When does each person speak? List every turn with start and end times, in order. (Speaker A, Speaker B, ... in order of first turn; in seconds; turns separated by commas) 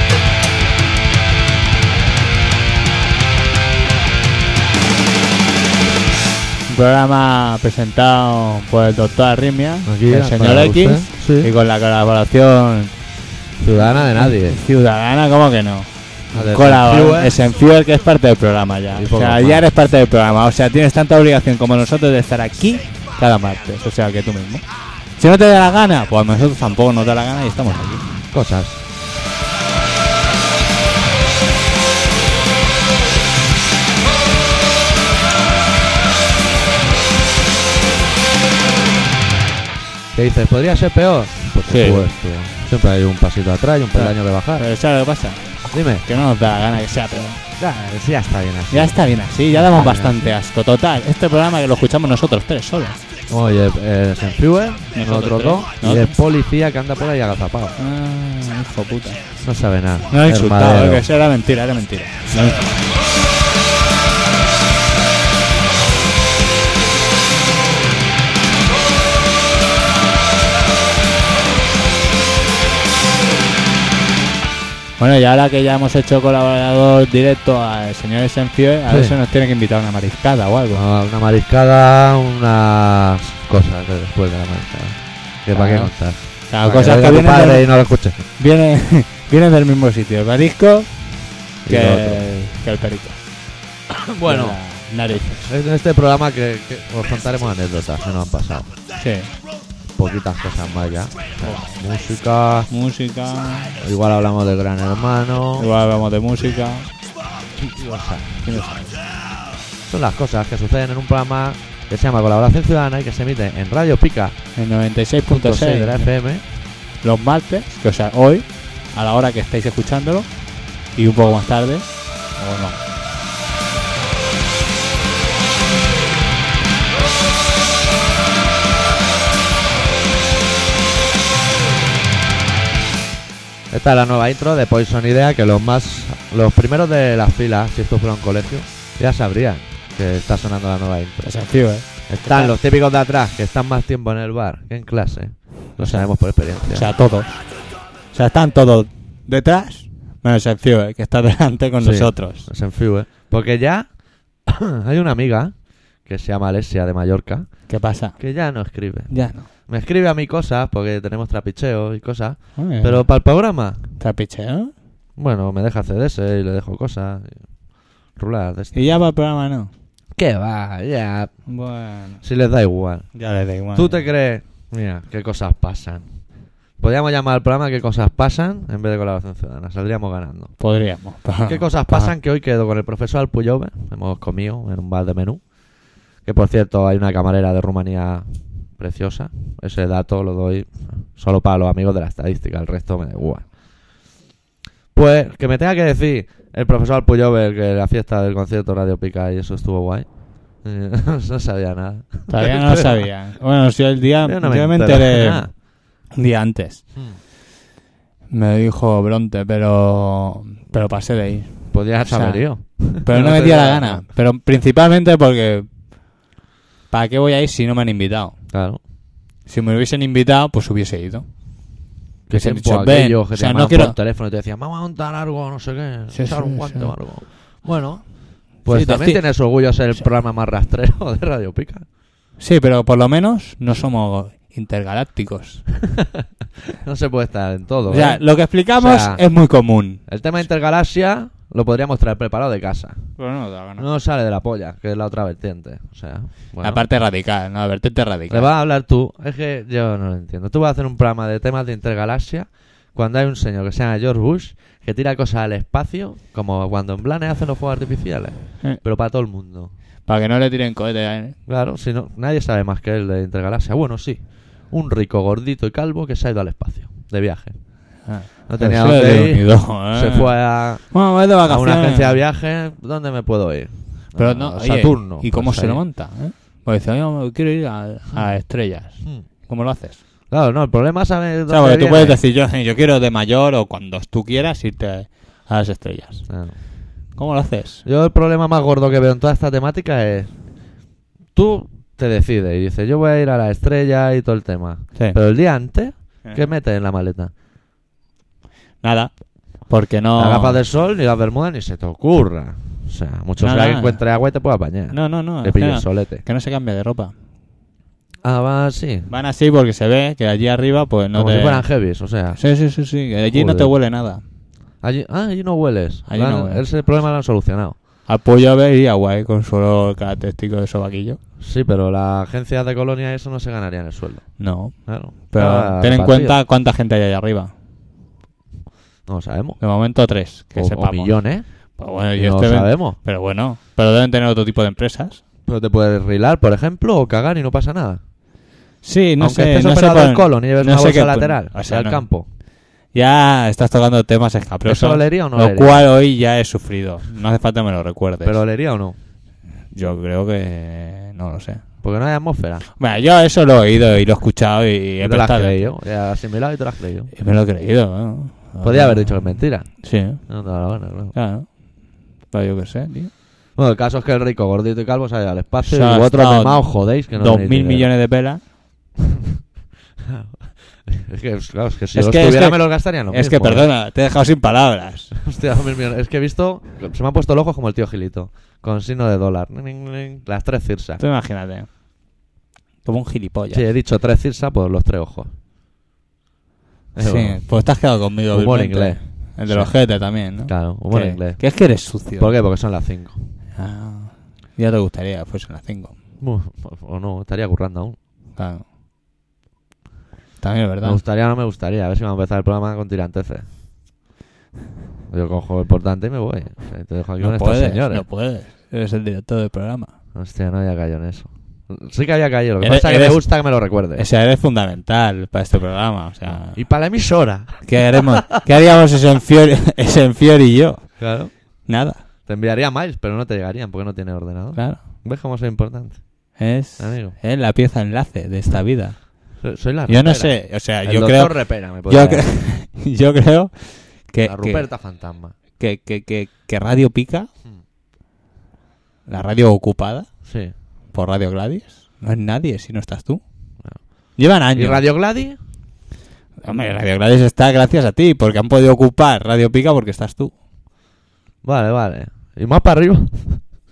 Speaker A: 6.7-13.1, Speaker B: 9.8-11.5, Speaker B: 13.6-14.6, Speaker A: 13.8-24.6, Speaker B: 16.3-17.3, Speaker B: 18.9-19.6, Speaker A: 25.2-28.1, Speaker B: 28.3-28.8, Speaker B: 40.1-44.6, Speaker A: 41.7-42.1, Speaker A: 43.9-47.4, Speaker B: 45.7-46.0, Speaker B: 47.6-50.3, Speaker A: 48.7-53.0, Speaker B: 53.3-57.8, Speaker A: 54.9-56.1, Speaker A: 57.8-59.2, Speaker B: 59.4-61.0, Speaker A: 60.1-62.8, Speaker A: 75.0-80.8, Speaker B: 78.9-79.1, Speaker B: 80.7-88.2, Speaker A: 85.5-87.7, Speaker A: 88.3-90.9, Speaker B: 91.7-92.2, Speaker A: 91.7-93.2, Speaker B: 93.9-94.6, Speaker A: 94.2-95.5, Speaker B: 95.4-98.7, Speaker A: 99.0-99.3, Speaker B: 100.0-102.7, Speaker A: 101.4-101.8, Speaker A: 102.7-103.8, Speaker B: 103.8-105.7, Speaker A: 105.6-106.9, Speaker B: 107.5-108.6, Speaker A: 108.4-109.0, Speaker B: 109.9-114.4, Speaker A: 114.5-116.1, Speaker B: 115.3-116.4, Speaker A: 117.0-120.3, Speaker A: 120.9-122.8, Speaker B: 133.7-141.4, Speaker A: 141.2-142.5, Speaker B: 142.1-146.8, Speaker A: 145.8-147.4, Speaker A: 148.1-152.5, Speaker B: 151.8-153.9, Speaker B: 154.4-155.5, Speaker B: 156.0-157.5, Speaker A: 157.7-158.2, Speaker B: 158.2-163.8, Speaker A: 159.1-159.5, Speaker A: 162.6-163.0, Speaker A: 164.0-164.7, Speaker B: 165.2-167.4, Speaker B: 168.1-168.8, Speaker A: 168.7-169.7, Speaker B: 170.2-171.3, Speaker A: 171.5-172.2, Speaker B: 172.2-173.1, Speaker A: 173.1-174.1, Speaker B: 173.7-176.1, Speaker B: 176.8-180.5, Speaker A: 180.6-182.1, Speaker B: 181.4-185.4, Speaker B: 186.2-193.5, Speaker B: 194.9-203.1, Speaker A: 202.3-205.4, Speaker B: 204.2-205.5, Speaker A: 206.1-206.9, Speaker A: 208.3-215.7, Speaker B: 211.7-214.0, Speaker A: 216.9-218.4, Speaker B: 218.5-218.8, Speaker A: 219.4-221.3, Speaker B: 222.3-231.9, Speaker A: 222.3-224.0, Speaker A: 226.1-227.0, Speaker A: 228.6-229.2, Speaker A: 232.4-235.7, Speaker B: 236.8-238.2, Speaker A: 237.9-240.0, Speaker B: 238.8-239.2, Speaker B: 240.1-243.2, Speaker A: 243.2-243.9, Speaker B: 243.8-246.8, Speaker A: 246.6-248.5, Speaker B: 248.3-259.7, Speaker A: 260.1-261.4, Speaker B: 261.4-267.6, Speaker A: 268.0-272.2, Speaker B: 268.5-275.8, Speaker A: 274.1-280.0, Speaker B: 280.3-282.2, Speaker A: 281.5-286.3, Speaker B: 286.3-286.6, Speaker A: 287.1-287.8, Speaker B: 287.8-290.3, Speaker B: 291.3-297.3, Speaker A: 296.2-296.5, Speaker A: 298.8-299.1, Speaker A: 299.6-300.6, Speaker B: 300.1-306.2, Speaker A: 303.4-304.0, Speaker A: 304.9-307.1, Speaker B: 308.2-309.1, Speaker A: 309.1-311.7, Speaker B: 311.1-312.4, Speaker A: 312.4-314.2, Speaker B: 313.3-313.7, Speaker B: 314.8-317.8, Speaker A: 316.1-316.6, Speaker A: 318.1-321.2, Speaker B: 321.4-326.4, Speaker A: 324.4-327.5, Speaker B: 329.1-329.6, Speaker A: 329.6-331.1, Speaker B: 330.5-331.4, Speaker A: 331.8-335.2, Speaker B: 332.1-333.0, Speaker B: 335.5-338.0, Speaker A: 338.8-342.0, Speaker B: 339.2-342.2, Speaker A: 342.9-348.4, Speaker B: 344.6-345.8, Speaker B: 348.2-348.9, Speaker A: 349.7-351.6, Speaker B: 351.8-352.6, Speaker A: 352.8-355.7, Speaker B: 355.0-357.1, Speaker A: 357.1-360.3, Speaker B: 358.6-361.1, Speaker A: 361.1-361.6, Speaker A: 362.3-363.1, Speaker B: 363.6-367.9, Speaker A: 365.6-368.4, Speaker B: 370.1-373.7, Speaker A: 371.9-375.1, Speaker B: 375.2-381.0, Speaker A: 381.0-381.7, Speaker A: 382.8-383.7, Speaker B: 383.5-385.3, Speaker B: 386.9-387.4, Speaker A: 387.0-392.3, Speaker B: 388.3-389.8, Speaker B: 390.4-391.4, Speaker B: 392.2-393.2, Speaker A: 393.6-395.9, Speaker B: 396.2-398.0, Speaker A: 398.4-398.6, Speaker A: 400.4-401.0, Speaker B: 400.8-403.5, Speaker B: 405.1-408.0, Speaker A: 407.2-409.9, Speaker B: 410.1-414.0, Speaker A: 412.6-413.3, Speaker A: 413.9-416.6, Speaker B: 416.2-418.0, Speaker A: 417.6-422.0, Speaker B: 421.0-421.7, Speaker B: 422.2-426.0, Speaker A: 424.5-424.8, Speaker A: 426.4-429.1, Speaker B: 426.8-427.1, Speaker B: 429.4-432.2, Speaker A: 429.9-434.7, Speaker B: 434.2-435.3, Speaker A: 435.6-437.3, Speaker A: 439.1-440.1, Speaker B: 440.2-440.5, Speaker A: 440.9-443.2, Speaker A: 444.2-444.8, Speaker B: 444.5-445.4, Speaker A: 446.4-450.3, Speaker B: 451.4-453.4